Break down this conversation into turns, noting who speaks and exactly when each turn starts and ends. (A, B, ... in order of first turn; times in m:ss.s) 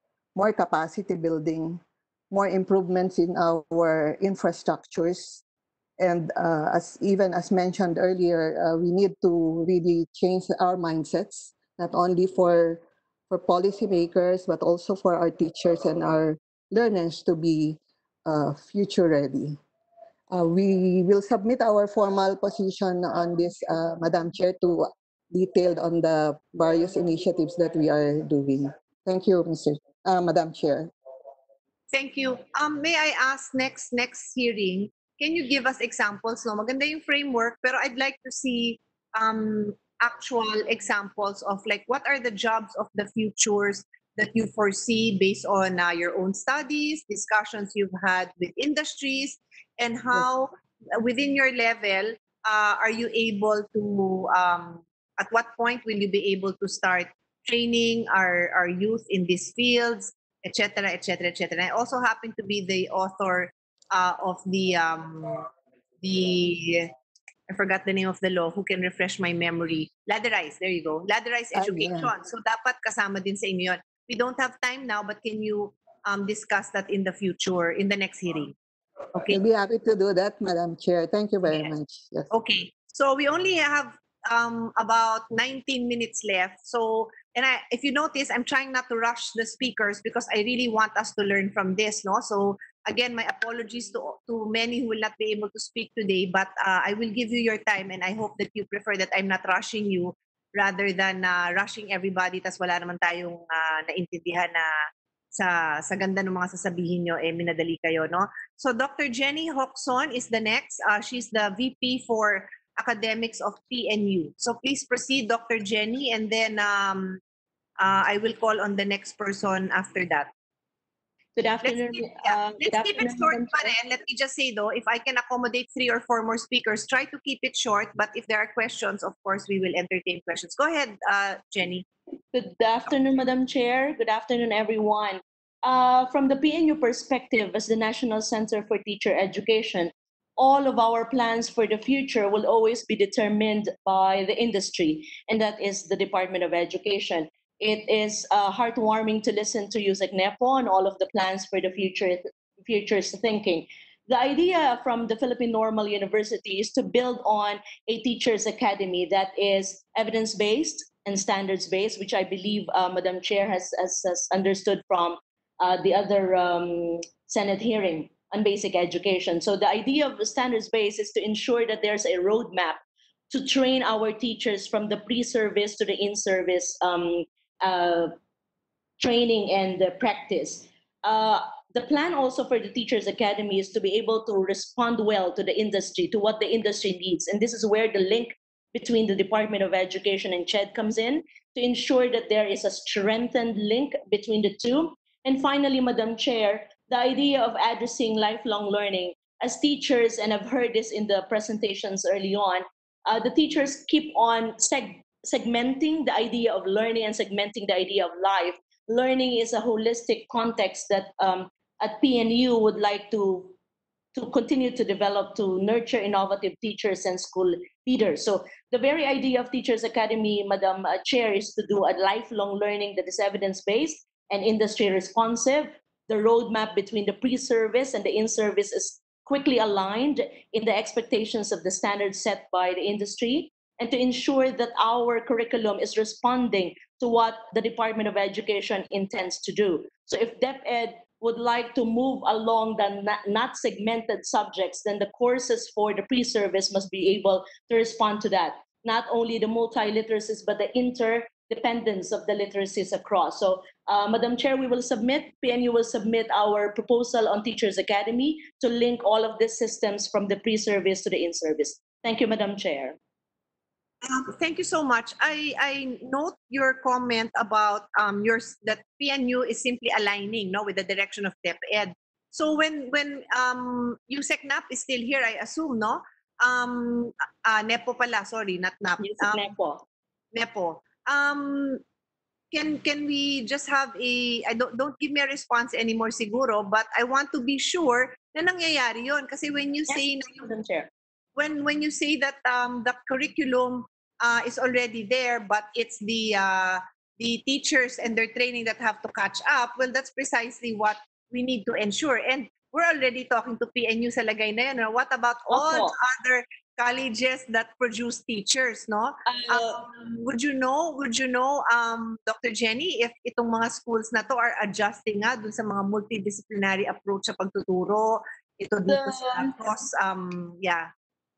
0:00.4-0:05.4 A
0:06.0-0:19.6 A
0:20.3-0:30.9 A
0:31.9-1:05.5 B
1:06.0-1:06.9 B
1:07.5-1:18.6 B
1:11.6-1:12.1 A
1:19.2-1:19.4 B
1:19.2-1:22.3 A
1:22.3-1:44.7 B
1:45.3-1:57.2 B
1:57.8-2:00.3 B
2:01.4-2:03.7 C
2:01.6-2:11.9 B
2:12.3-2:52.8 C
2:53.3-2:58.2 C
2:59.0-3:33.6 C
3:34.1-4:23.0 C
4:24.0-4:39.5 B
4:39.0-4:39.8 C
4:40.3-4:41.8 B
4:42.5-4:50.4 B
4:49.9-4:50.9 C
4:51.4-5:20.9 B
5:05.5-5:05.9 C
5:09.3-5:09.8 C
5:18.8-5:19.6 C